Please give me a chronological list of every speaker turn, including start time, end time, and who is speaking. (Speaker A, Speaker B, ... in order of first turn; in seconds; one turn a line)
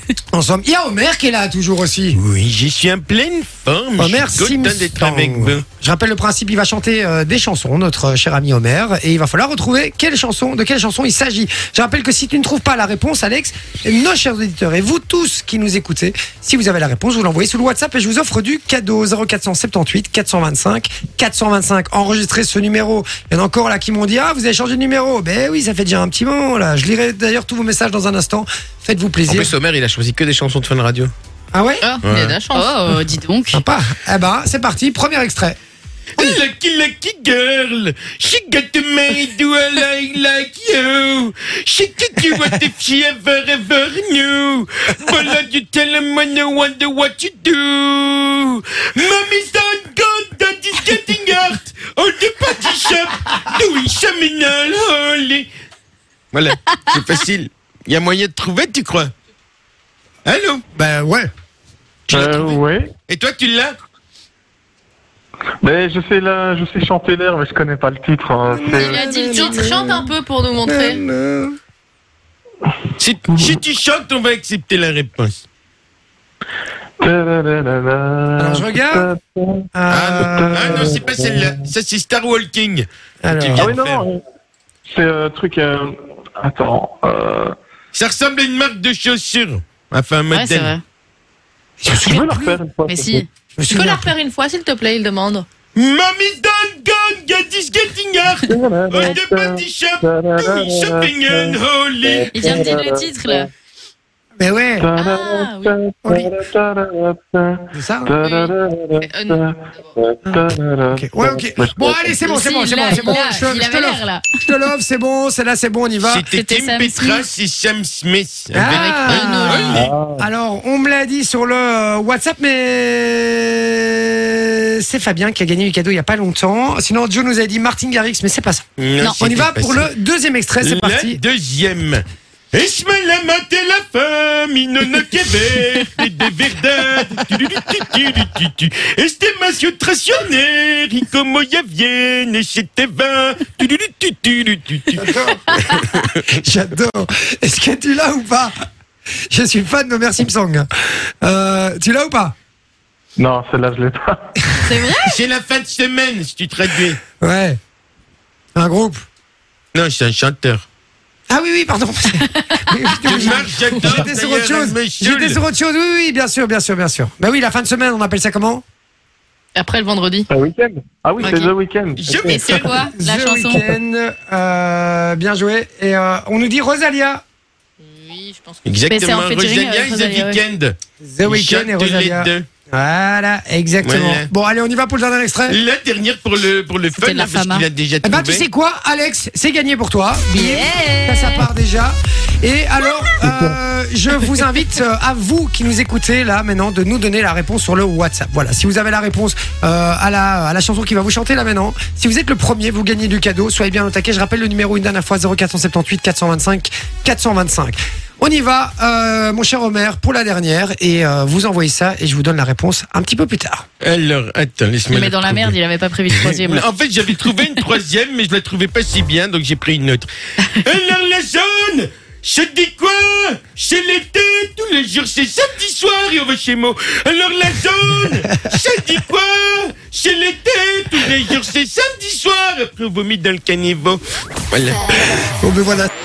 Speaker A: 0.3-2.2
Speaker B: 2.1-5.6
Speaker A: 4.0-29.5
Speaker B: 29.3-31.1
Speaker A: 31.5-31.9
Speaker C: 31.8-33.1
Speaker B: 32.0-32.4
Speaker D: 32.5-33.6
Speaker A: 33.5-35.6
Speaker B: 36.2-55.5
Speaker B: 56.3-59.1
Speaker B: 60.2-60.6
Speaker A: 60.8-61.3
Speaker B: 62.1-63.8
Speaker E: 62.1-62.9
Speaker E: 65.6-69.1
Speaker A: 68.5-70.1
Speaker C: 68.7-71.0
Speaker A: 70.7-71.6
Speaker B: 73.0-75.4
Speaker E: 73.3-73.6
Speaker E: 77.0-79.7
Speaker A: 78.4-79.1
Speaker A: 79.8-81.0
Speaker B: 79.9-84.0
Speaker E: 80.2-81.7
Speaker A: 83.2-83.7
Speaker E: 83.6-84.2
Speaker E: 84.9-87.5
Speaker B: 87.9-90.7
Speaker D: 90.3-90.8
Speaker A: 91.8-92.6
Speaker E: 91.9-93.2
Speaker D: 92.9-93.3
Speaker A: 93.6-94.1
Speaker C: 93.7-95.5
Speaker B: 95.8-102.7
Speaker E: 98.3-103.5
Speaker D: 102.3-103.5
Speaker A: 104.4-104.9
Speaker E: 104.8-112.2
Speaker C: 105.0-105.8
Speaker A: 106.0-106.3
Speaker A: 107.7-108.1
Speaker C: 108.2-109.8
Speaker A: 110.3-116.3
Speaker D: 112.2-114.3
Speaker B: 116.0-119.9
Speaker D: 116.3-117.3
Speaker A: 118.5-131.2
Speaker D: 118.7-119.8
Speaker E: 119.7-120.3
Speaker B: 128.8-129.9
Speaker B: 130.6-145.0
Speaker A: 144.9-148.5
Speaker A: 149.3-150.7
Speaker A: 151.2-152.3
Speaker E: 153.2-154.2
Speaker A: 154.5-154.9
Speaker D: 154.7-155.2
Speaker B: 155.1-157.0
Speaker A: 157.2-157.6
Speaker A: 158.6-159.0
Speaker B: 159.7-160.7
Speaker A: 161.3-168.6
Speaker D: 163.1-164.0
Speaker B: 163.1-165.4
Speaker D: 169.6-169.9
Speaker C: 169.9-170.3
Speaker E: 170.3-172.8
Speaker D: 171.2-171.5
Speaker B: 172.0-172.9
Speaker D: 172.3-173.7
Speaker A: 172.9-177.2
Speaker C: 177.8-178.7
Speaker B: 178.7-182.5
Speaker D: 178.9-180.4
Speaker A: 181.0-185.6
Speaker B: 183.8-184.3
Speaker B: 185.5-188.4
Speaker D: 187.0-187.7
Speaker A: 188.0-213.7
Speaker D: 190.3-191.5
Speaker E: 193.2-193.5
Speaker B: 213.8-215.6
Speaker D: 214.9-216.7
Speaker B: 216.1-220.1
Speaker B: 220.6-235.0
Speaker A: 228.3-228.6
Speaker A: 235.4-235.9